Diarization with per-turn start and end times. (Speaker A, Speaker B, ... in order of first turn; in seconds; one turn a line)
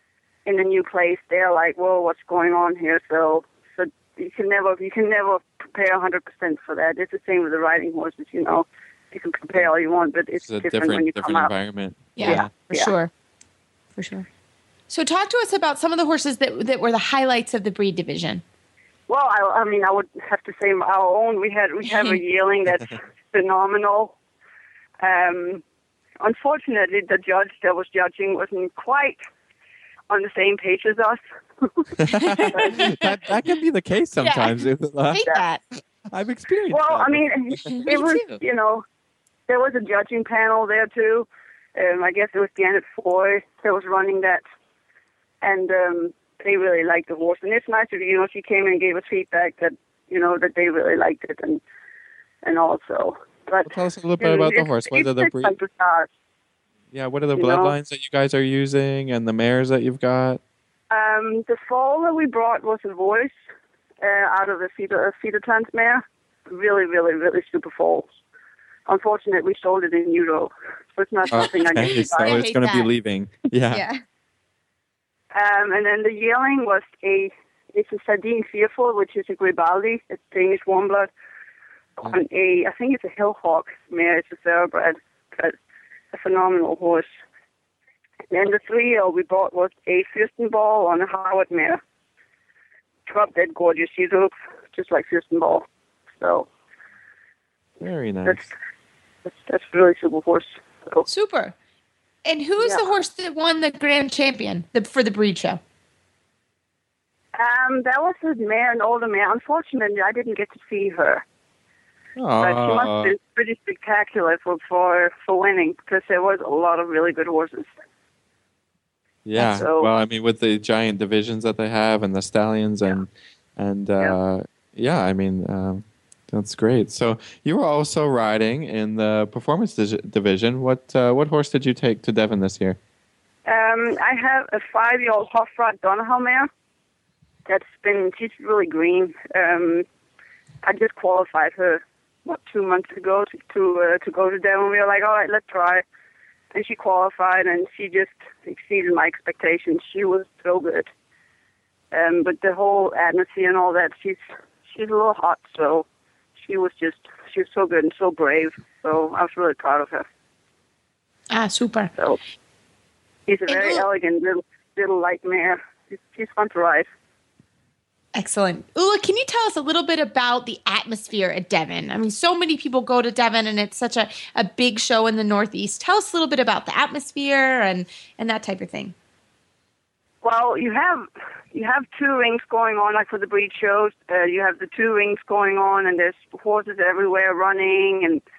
Speaker A: 0.4-11.5
Speaker B: 10.4-12.6
Speaker C: 12.2-13.1
Speaker A: 12.2-12.9
Speaker C: 13.9-14.3
Speaker C: 14.9-18.4
Speaker A: 19.1-24.1
Speaker A: 25.0-25.6
Speaker A: 26.2-29.2
Speaker A: 30.1-31.9
Speaker B: 32.0-35.2
Speaker C: 32.1-33.1
Speaker A: 32.5-32.8
Speaker C: 34.2-35.6
Speaker B: 36.1-37.8
Speaker A: 36.7-38.8
Speaker C: 37.6-38.4
Speaker A: 39.5-44.4
Speaker A: 45.4-51.6
Speaker A: 52.4-56.1
Speaker B: 53.6-55.5
Speaker B: 56.9-60.4
Speaker A: 57.3-57.7
Speaker A: 60.9-63.3
Speaker A: 64.0-68.0
Speaker A: 68.8-72.5
Speaker B: 71.3-73.8
Speaker C: 71.8-72.9
Speaker C: 73.7-74.0
Speaker A: 75.3-81.1
Speaker A: 82.0-85.5
Speaker A: 86.1-87.1
Speaker A: 88.3-91.8
Speaker A: 93.1-96.5
Speaker B: 97.8-98.5
Speaker A: 99.2-101.0
Speaker C: 101.1-101.5
Speaker C: 102.2-105.6
Speaker A: 107.3-111.2
Speaker B: 112.2-113.1
Speaker A: 112.4-117.7
Speaker B: 119.2-132.8
Speaker A: 119.3-119.9
Speaker A: 133.4-136.5
Speaker A: 137.4-139.8
Speaker A: 140.6-145.8
Speaker A: 146.5-150.9
Speaker A: 151.9-155.9
Speaker A: 156.4-160.1
Speaker C: 161.3-161.9
Speaker A: 163.3-166.9
Speaker C: 163.5-163.8
Speaker C: 168.1-178.9
Speaker A: 180.2-188.2